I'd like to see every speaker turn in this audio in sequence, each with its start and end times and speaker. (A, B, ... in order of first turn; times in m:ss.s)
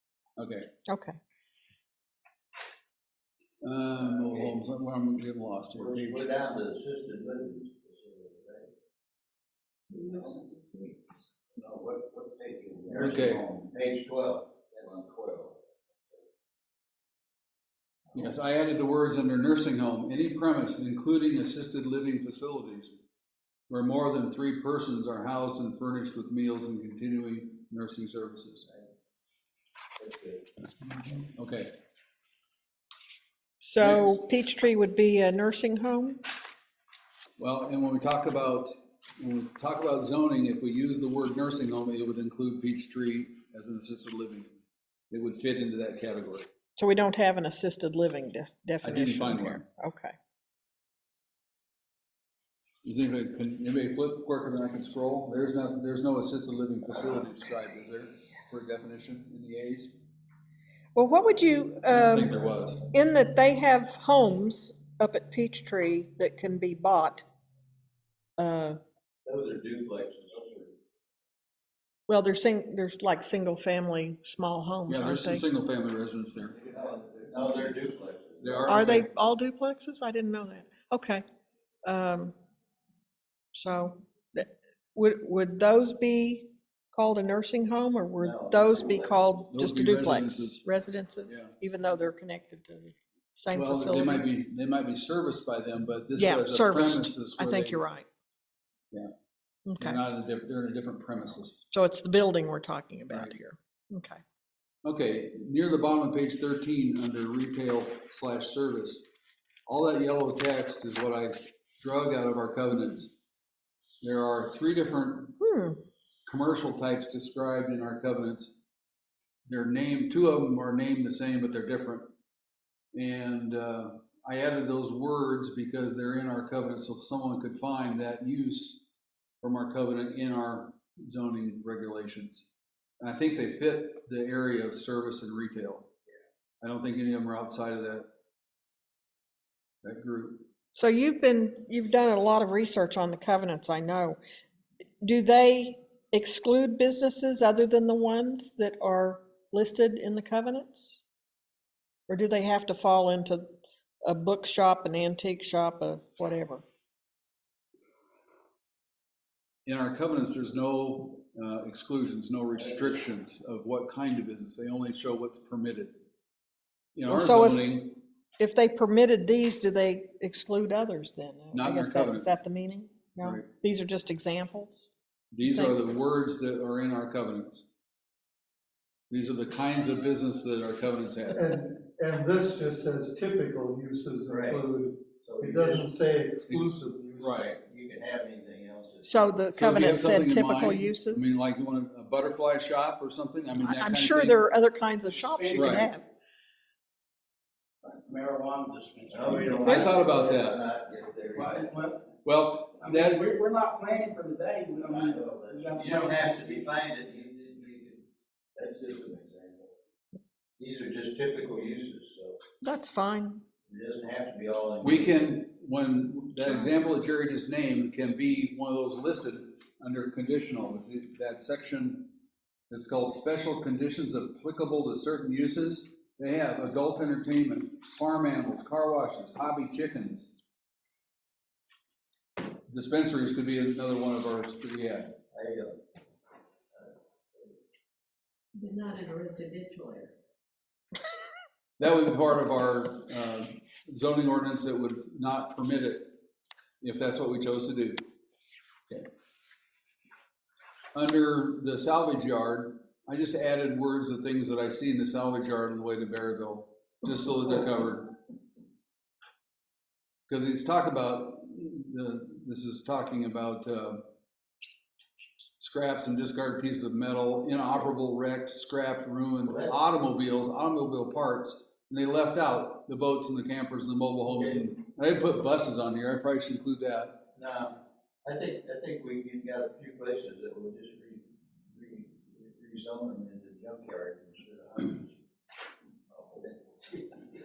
0:00.4-0:00.7 A
0:00.9-0:01.2 B
0:03.6-0:06.3 A
0:04.0-0:04.6 C
0:05.8-0:08.7 C
0:09.9-0:11.0 D
0:11.5-0:15.5 C
0:13.0-0:13.4 A
0:18.1-0:23.0 A
0:23.7-0:28.7 A
0:30.0-0:30.4 C
0:30.8-0:31.7 A
0:33.6-0:36.2 B
0:33.8-0:34.2 A
0:37.4-0:44.5 A
0:45.1-0:46.5 A
0:46.8-0:50.1 B
0:48.8-0:49.6 A
0:52.8-1:00.0 A
1:01.0-1:07.2 B
1:01.9-1:02.8 A
1:08.4-1:08.8 B
1:09.3-1:10.8 C
1:12.1-1:15.4 B
1:14.9-1:16.6 A
1:16.6-1:19.0 C
1:18.4-1:19.1 A
1:18.7-1:21.2 B
1:21.8-1:22.4 B
1:23.5-1:34.3 B
1:28.2-1:29.4 C
1:29.5-1:30.6 A
1:31.3-1:31.5 A
1:33.5-1:37.8 A
1:36.2-1:38.1 B
1:39.7-1:40.0 B
1:39.8-1:41.7 A
1:41.7-1:44.2 B
1:43.1-1:43.4 A
1:44.8-1:49.1 A
1:49.7-1:53.1 A
1:54.0-1:55.4 A
1:55.4-1:55.8 B
1:56.3-1:58.6 A
1:59.5-2:02.1 A
2:02.9-2:08.8 A
2:09.4-2:12.4 A
2:13.0-2:15.9 A
2:16.6-2:18.1 A
2:19.8-2:20.4 A
2:20.8-2:24.2 B
2:25.0-2:31.0 B
2:32.1-2:33.5 B
2:34.0-2:36.6 B
2:39.6-2:45.9 A
2:47.0-2:48.0 A
2:47.1-2:47.8 B
2:48.4-2:54.9 B
2:51.5-2:52.4 A
2:53.2-2:53.5 A
2:55.3-2:57.7 A
2:55.4-2:55.8 B
2:59.1-3:01.6 A
3:01.3-3:07.4 E
3:04.3-3:04.6 C
3:05.2-3:05.9 C
3:07.2-3:07.5 A
3:07.3-3:09.2 C
3:09.0-3:11.4 B
3:09.5-3:14.4 A
3:13.6-3:16.1 B
3:15.2-3:15.9 F
3:15.5-3:15.9 A
3:17.8-3:19.7 F
3:19.1-3:21.7 C
3:19.6-3:20.0 B
3:19.6-3:20.6 A
3:21.3-3:22.0 F
3:22.2-3:23.2 A
3:22.8-3:26.7 F
3:24.9-3:28.0 C
3:28.6-3:29.7 C
3:30.6-3:32.4 C
3:32.6-3:33.4 B
3:33.7-3:35.3 C
3:34.8-3:42.1 A
3:42.7-3:50.3 A
3:52.7-3:55.1 A
3:55.3-3:55.8 C
3:56.8-3:57.5 C
3:58.6-4:00.1 D
4:01.8-4:06.1 A
4:06.8-4:08.0 A
4:11.0-4:18.2 A
4:20.3-4:24.0 A
4:25.6-4:37.2 A
4:29.4-4:29.7 C
4:34.4-4:34.6 C
4:37.4-4:45.2 C
4:46.1-4:47.2 C